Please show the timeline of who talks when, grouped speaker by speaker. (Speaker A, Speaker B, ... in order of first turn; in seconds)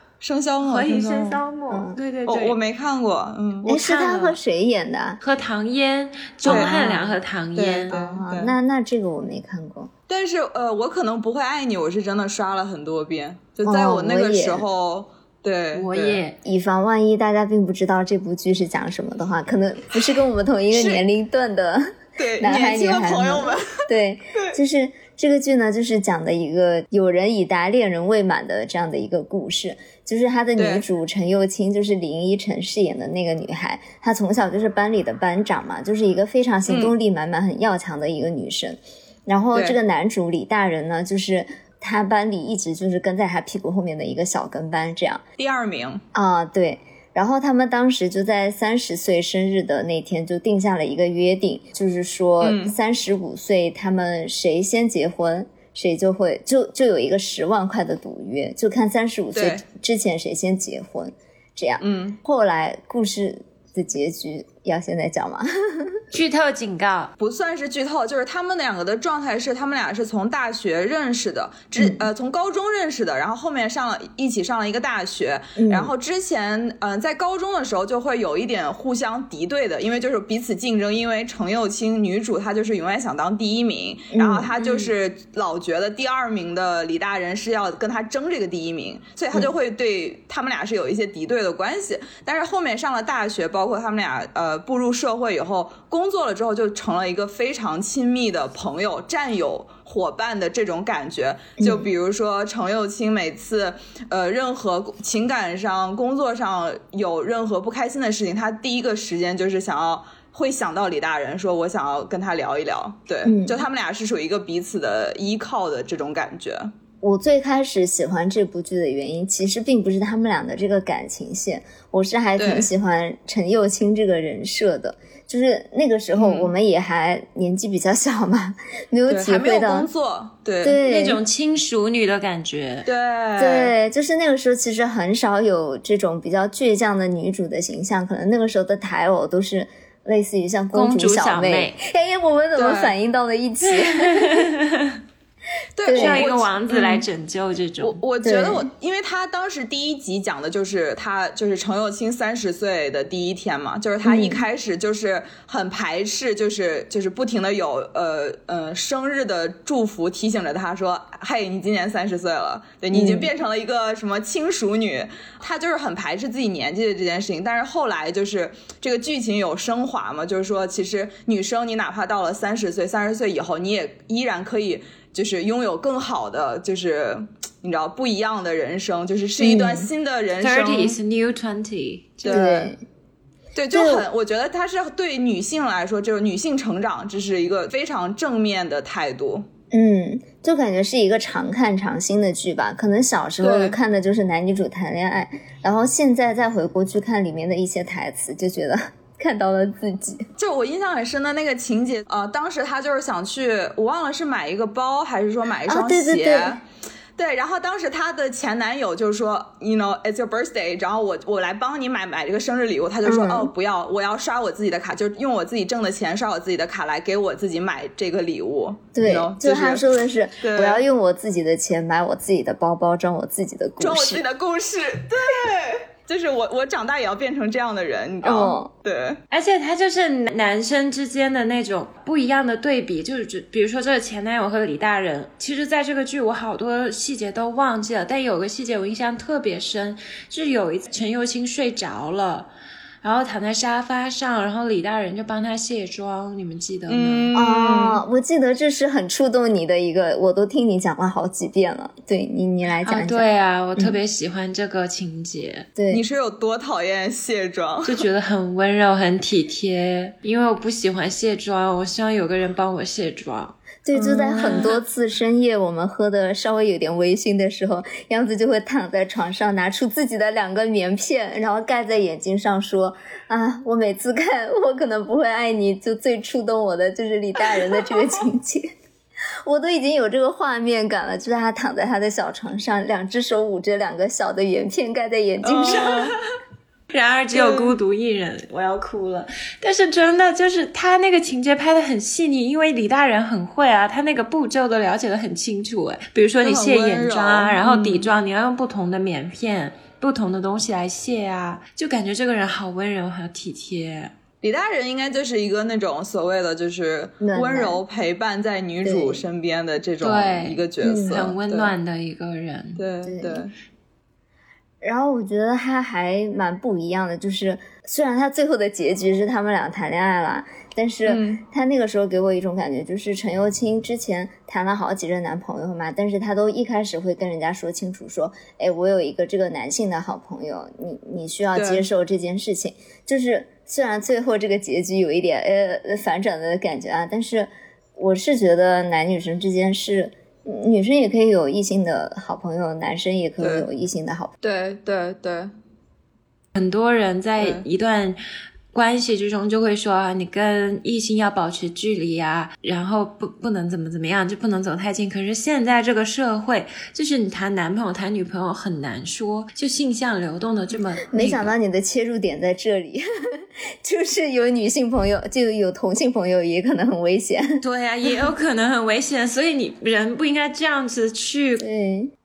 Speaker A: 0.2-1.4, 2.3-3.7, 6.5-6.9, 7.5-8.5, 10.1-16.2, 20.7-21.0, 22.2-23.7, 30.6-30.9, 36.7-36.9, 45.4-46.0, 52.4-52.7, 59.4-59.6, 61.8-62.2, 67.2-116.7, 122.4-122.7, 126.2-126.5, 129.1-130.8, 132.9-133.7, 142.6-142.9, 145.8-147.0, 147.8-181.0, 182.2-182.7, 183.6-189.4, 193.4-193.8, 200.4-206.7, 207.2-219.8, 220.4-220.8, 223.8-229.2, 246.9-248.0, 255.9-258.1, 285.4-286.2, 287.3-287.8, 296.4-298.1, 304.4-311.7, 312.8-313.5, 321.1-321.4, 331.5-331.9, 343.4-343.7, 344.4-345.5, 347.4-347.6
Speaker B: 0.6-2.6, 3.7-4.4, 5.2-7.9, 15.7-16.4, 66.1-67.1, 130.8-132.9, 140.7-141.8, 143.6-145.0, 145.9-148.0, 180.4-182.6, 229.3-242.5, 243.0-247.3, 252.8-255.7, 257.9-264.7, 285.7-286.1, 286.9-304.1, 310.0-312.8, 346.6-348.2, 348.7-361.5, 367.6-371.6
Speaker C: 1.7-2.0, 3.6-5.2, 6.4-7.1, 7.9-9.9, 13.6-14.7, 16.4-45.2, 46.1-66.0, 71.8-72.1, 75.6-75.9, 84.1-84.9, 101.6-101.9, 113.2-113.7, 117.0-129.9, 130.6-131.2, 133.4-144.5, 145.8-146.3, 148.2-148.7, 154.0-154.4, 162.9-163.3, 179.4-179.9, 182.3-182.8, 183.7-184.1, 189.7-200.3, 205.7-206.6, 213.1-213.5, 219.0-224.2, 228.2-228.7, 247.3-253.3, 255.8-256.0, 263.9-278.7, 279.4-286.1, 307.2-307.8, 308.8-309.2, 310.8-311.3, 313.0-313.4, 314.8-344.3, 361.1-367.6, 371.6-372.1